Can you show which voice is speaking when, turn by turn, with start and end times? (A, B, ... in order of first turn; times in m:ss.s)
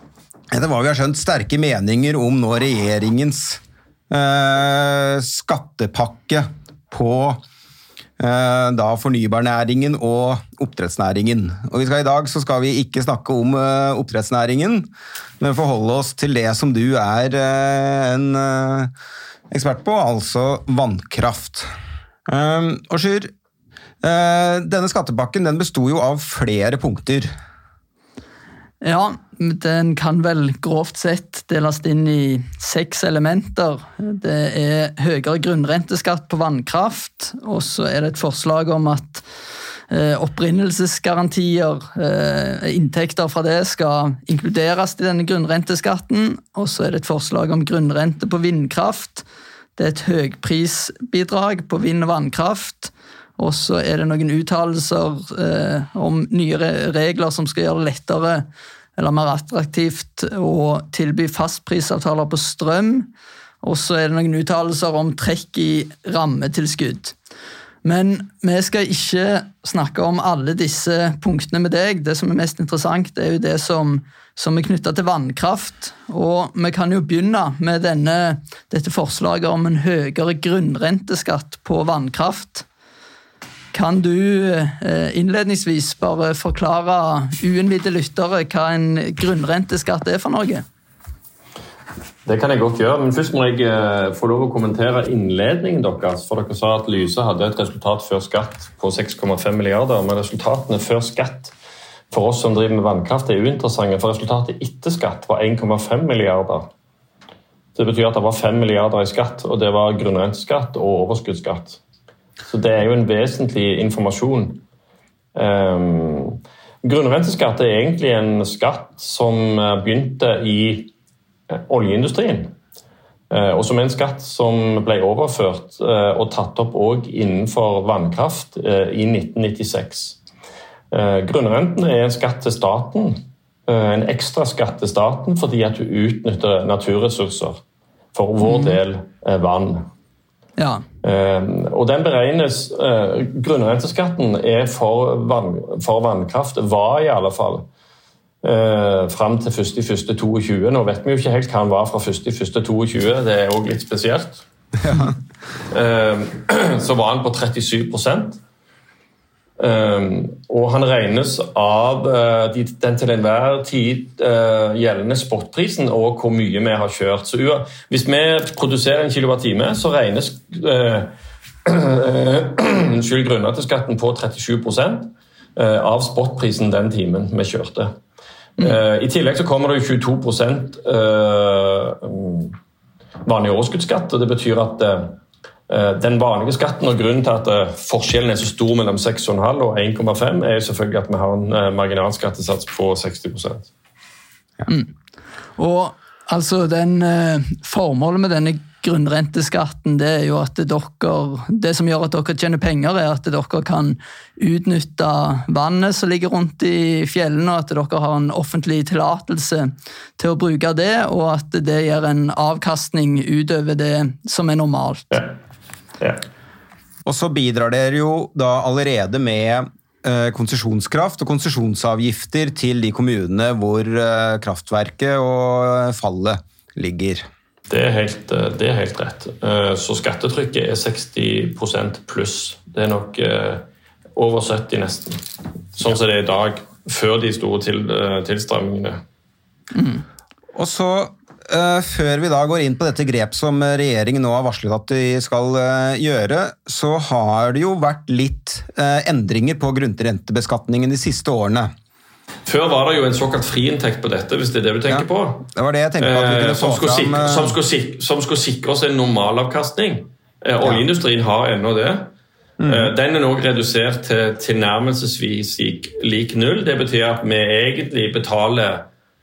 0:00.5-0:07.4 A
0:08.2-0:14.9 A
0:15.4-0:18.9 A
0:19.5-0:21.7 A
0:22.3-0:23.3 A
0:24.0-0:27.3 A
0:28.8-0:39.2 B
0:39.9-0:49.2 B
0:49.8-1:03.1 B
1:03.6-1:07.2 B
1:07.8-1:22.7 B
1:23.7-1:30.6 B
1:32.3-1:41.5 C
1:42.1-1:46.7 C
1:47.8-1:51.8 C
1:52.5-1:54.6 C
1:55.4-2:00.9 C
2:01.5-2:02.5 C
2:03.3-2:10.2 C
2:10.9-2:17.6 C
2:18.1-2:19.9 C
2:18.4-2:18.8 B
2:20.6-2:20.8 B
2:21.0-2:27.7 C
2:28.4-2:34.4 C
2:34.8-2:35.1 A
2:35.7-2:38.4 C
2:39.6-2:51.1 C
2:51.6-2:57.9 C
2:58.6-3:02.6 C
3:03.2-3:05.2 C
3:05.7-3:13.7 C
3:15.6-3:35.2 B
3:37.0-3:47.3 A
3:47.7-3:53.6 C
3:54.2-3:55.2 C
3:55.7-3:59.0 C
3:59.8-4:00.0 B
4:00.5-4:11.7 A
4:12.5-4:15.5 C
4:14.9-4:17.6 A
4:16.0-4:22.1 C
4:22.6-4:22.9 A
4:22.6-4:28.9 C